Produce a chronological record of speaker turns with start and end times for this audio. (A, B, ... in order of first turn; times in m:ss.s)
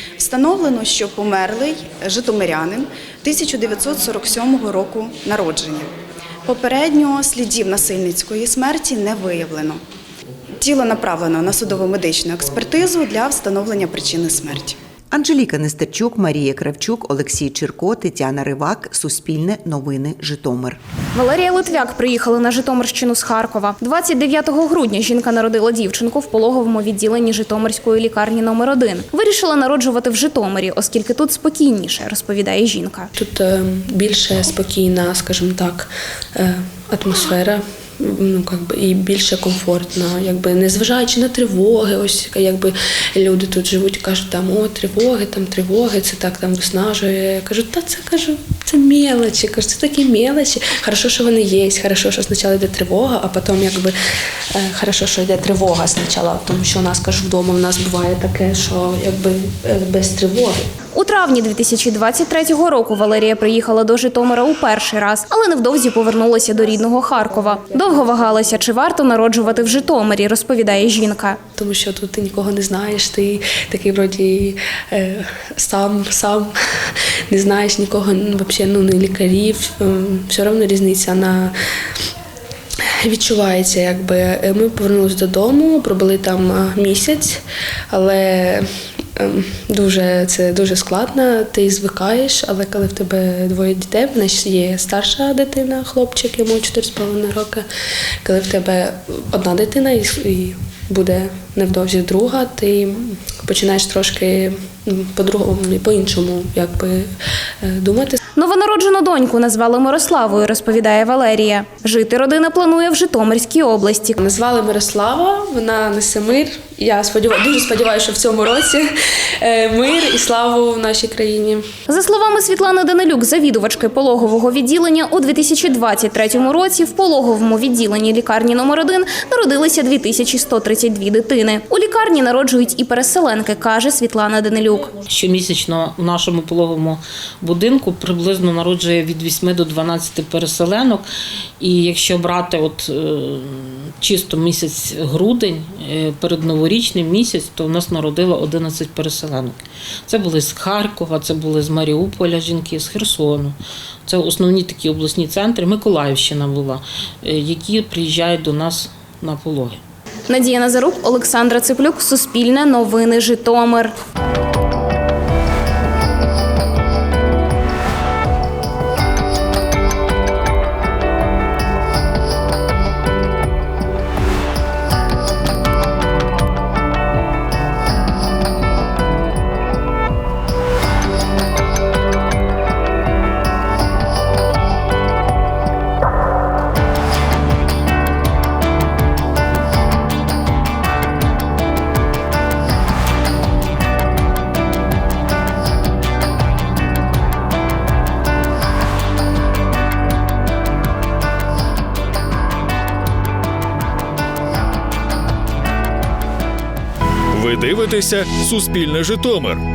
0:00.2-0:05.9 A
0:06.4-0:09.8 A
0:10.6-0:14.8 A
0:15.1-0:20.8 B
0:21.2-0:33.1 C
0:33.2-0:53.9 D
0:54.5-1:00.6 D
1:00.9-1:11.4 C
1:11.6-1:16.5 D
1:17.3-1:21.5 D
1:23.0-1:37.7 D
1:38.2-1:47.1 D
1:47.6-1:48.2 D
1:48.4-1:54.2 C
1:54.2-1:58.9 D
1:59.4-2:01.6 D
2:01.9-2:14.9 C
2:15.1-2:21.1 E
2:21.6-2:39.8 E
2:40.3-2:44.0 C
3:27.3-3:29.6 F